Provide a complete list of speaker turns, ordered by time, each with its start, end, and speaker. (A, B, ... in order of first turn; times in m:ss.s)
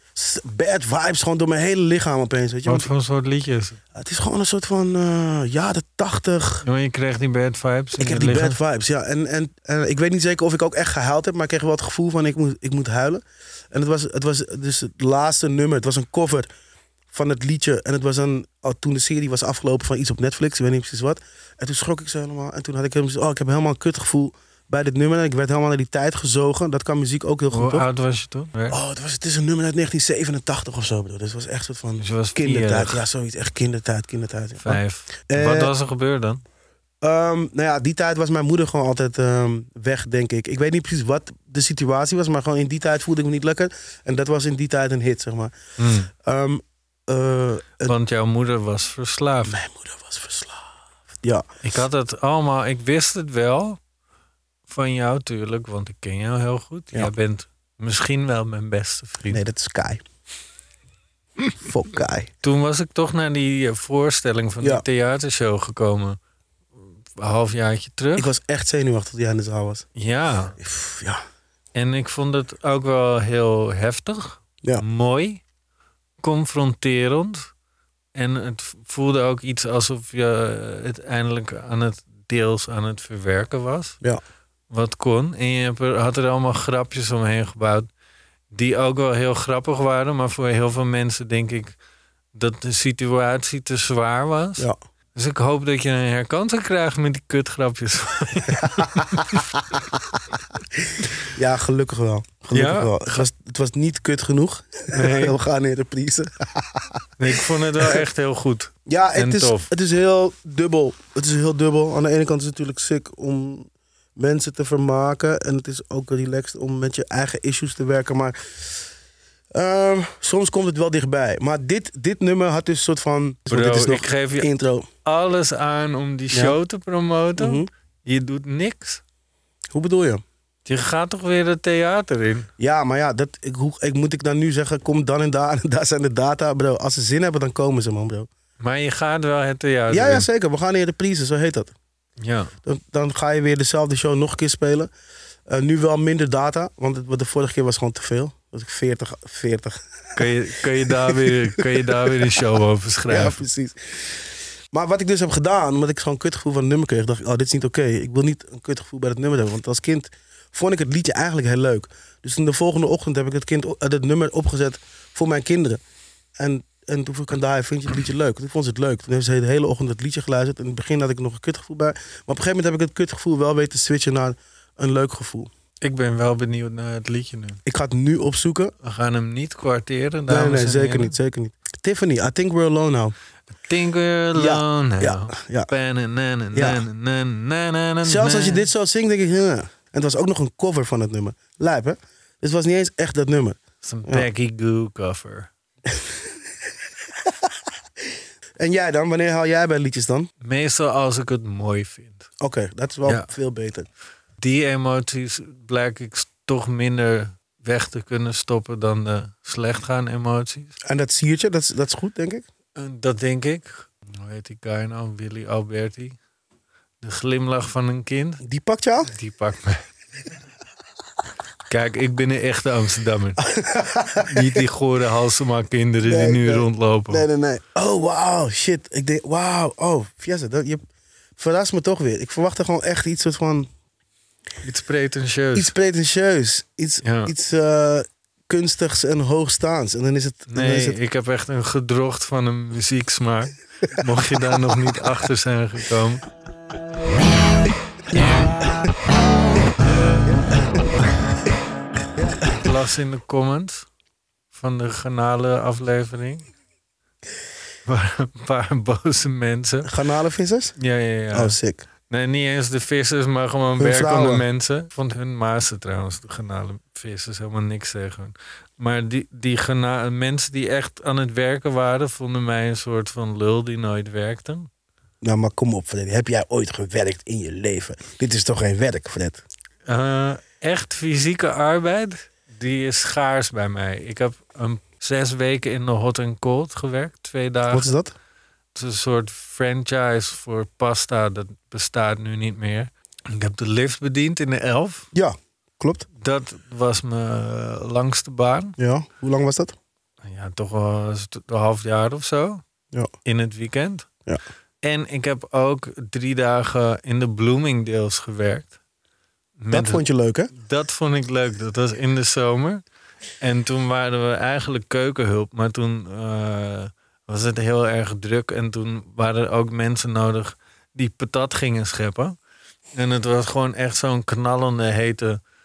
0:00.2-0:02.9 A
0:02.6-0:03.8 B
0:03.9-0:06.6 A
0:06.6-0:08.6 B
0:08.0-0:16.5 A
0:17.1-0:27.9 A
0:27.5-0:28.8 B
0:28.7-0:35.7 A
0:32.0-0:33.0 B
0:34.6-0:36.4 B
0:37.0-0:45.5 A
0:45.8-0:46.1 B
0:46.2-0:48.0 A
0:47.8-0:49.6 B
0:49.4-0:50.7 A
0:51.6-0:53.8 B
0:54.7-0:59.4 B
0:59.3-1:00.0 A
1:01.6-1:02.3 A
1:02.4-1:06.2 B
1:06.8-1:08.3 B
1:08.2-1:09.9 A
1:10.0-1:10.6 B
1:10.6-1:11.2 A
1:11.7-1:15.4 B
1:16.2-1:17.5 B
1:18.1-1:24.0 B
1:24.7-1:27.9 B
1:28.5-1:31.7 B
1:32.3-1:39.4 B
1:41.3-1:47.0 A
1:42.5-1:42.9 B
1:44.9-1:45.3 B
1:47.2-1:49.7 B
1:48.9-1:58.4 A
1:59.5-2:04.9 A
2:03.5-2:04.5 B
2:05.0-2:09.0 B
2:07.4-2:07.7 A
2:09.7-2:10.2 A
2:10.6-2:12.5 B
2:12.6-2:18.3 A
2:18.6-2:20.2 B
2:19.9-2:21.7 A
2:22.2-2:22.5 B
2:22.6-2:24.9 A
2:25.5-2:30.2 A
2:30.2-2:33.4 B
2:30.9-2:31.8 A
2:33.1-2:34.2 A
2:34.7-2:45.8 A
2:46.4-2:55.5 A
2:55.8-2:57.6 B
2:57.6-2:58.7 A
2:58.8-3:01.2 B
3:00.3-3:03.1 A
3:03.6-3:08.7 B
3:04.3-3:05.7 A
3:06.5-3:06.8 A
3:08.0-3:14.3 A
3:13.8-3:15.5 B
3:18.6-3:20.3 A
3:20.4-3:22.3 B
3:22.4-3:23.9 A
3:24.4-3:30.7 B
3:30.8-3:32.4 A
3:32.8-3:36.2 B
3:37.0-3:38.4 B
3:38.4-3:39.1 A
3:39.1-3:39.8 B
3:41.7-3:43.4 B
3:43.4-3:44.6 A
3:44.2-3:47.2 B
3:46.0-3:50.8 A
3:51.4-3:53.7 A
3:54.6-3:55.7 B
3:55.5-4:01.0 A
3:57.0-3:57.3 B
4:00.5-4:06.2 B
4:10.3-4:10.9 A
4:12.5-4:13.9 B
4:14.5-4:16.5 B
4:17.8-4:19.9 B
4:19.8-4:20.8 A
4:20.8-4:21.6 B
4:21.3-4:21.8 A
4:22.1-4:34.7 B
4:23.8-4:24.4 A
4:35.2-4:39.4 A
4:39.9-4:47.9 B
4:47.7-4:48.1 A
4:48.7-4:55.1 B
4:55.1-4:56.0 A
4:56.2-4:58.8 B
4:58.8-4:59.7 A
5:00.2-5:02.6 B
5:03.2-5:04.1 B
5:04.8-5:08.7 B
5:09.6-5:10.0 B
5:09.7-5:10.5 A
5:10.6-5:12.8 B
5:13.4-5:22.4 B
5:22.9-5:25.4 B